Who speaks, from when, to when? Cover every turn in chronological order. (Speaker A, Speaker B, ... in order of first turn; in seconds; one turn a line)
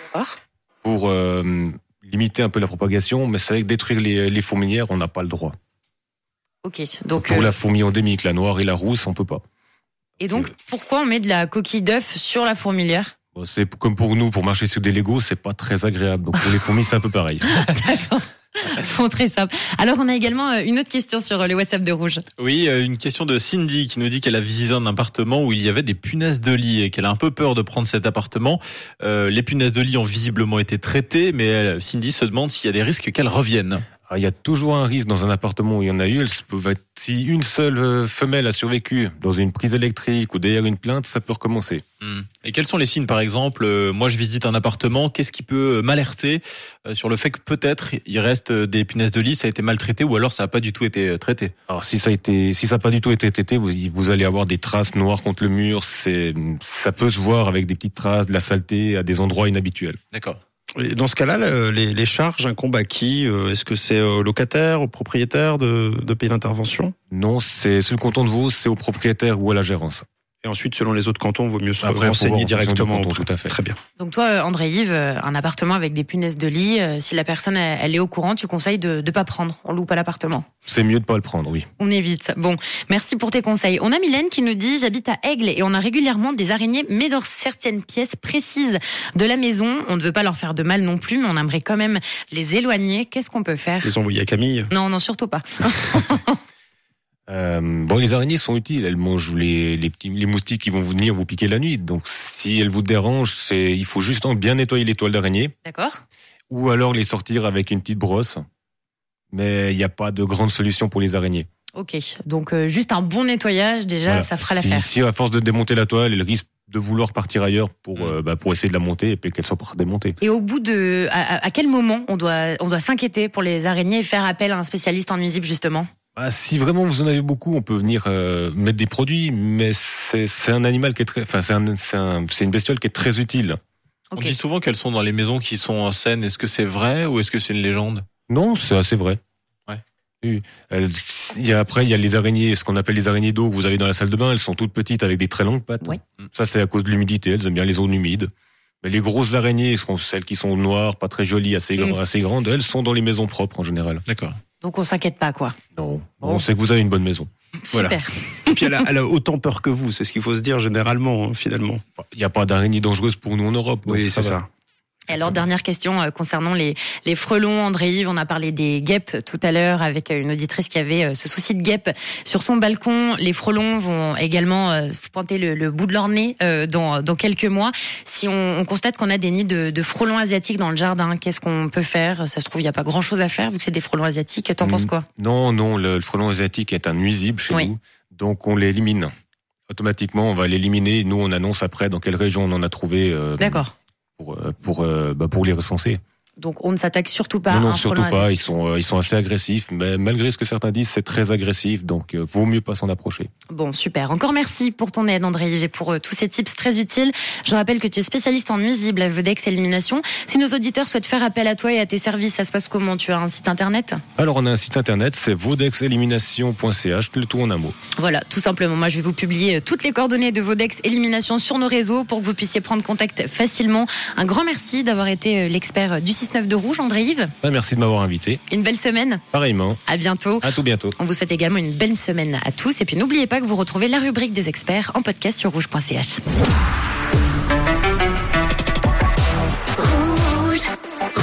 Speaker A: 0.8-5.5
Speaker B: 6.6-7.5
Speaker A: 7.2-9.4
Speaker B: 10.2-13.1
Speaker A: 13.3-17.6
Speaker B: 17.5-22.2
Speaker C: 22.4-33.8
Speaker A: 34.1-41.8
Speaker C: 42.0-51.5
Speaker A: 51.7-60.0
Speaker C: 60.1-60.4
Speaker D: 60.7-66.9
Speaker A: 67.1-70.0
Speaker D: 70.4-73.8
Speaker A: 71.8-73.5
Speaker B: 74.0-80.5
Speaker A: 80.6-81.7
Speaker B: 81.8-93.9
Speaker D: 93.8-94.7
Speaker B: 94.7-96.4
Speaker A: 97.3-105.5
Speaker B: 105.6-106.0
Speaker A: 106.5-108.4
Speaker A: 109.3-111.5
Speaker B: 111.7-114.9
Speaker A: 114.1-120.2
Speaker B: 120.2-125.9
Speaker A: 126.2-133.6
Speaker C: 134.2-138.0
Speaker A: 138.3-139.2
Speaker A: 140.2-148.3
Speaker A: 148.8-154.0
Speaker C: 154.1-154.4
Speaker B: 154.6-155.5
Speaker A: 155.8-157.3
Speaker B: 157.6-158.5
Speaker D: 157.7-161.8
Speaker A: 162.0-164.4
Speaker D: 163.8-164.5
Speaker B: 165.1-185.1
Speaker A: 165.1-165.4
Speaker A: 184.6-189.1
Speaker A: 189.7-193.7
Speaker B: 193.4-193.7
Speaker A: 194.2-196.0
Speaker B: 196.4-198.4
Speaker A: 197.5-203.3
Speaker B: 203.5-214.0
Speaker A: 214.2-217.8
Speaker B: 217.9-227.3
Speaker A: 227.4-228.4
Speaker B: 228.5-229.2
Speaker A: 229.3-229.8
Speaker B: 229.9-236.2
Speaker A: 230.4-230.9
Speaker B: 240.1-240.6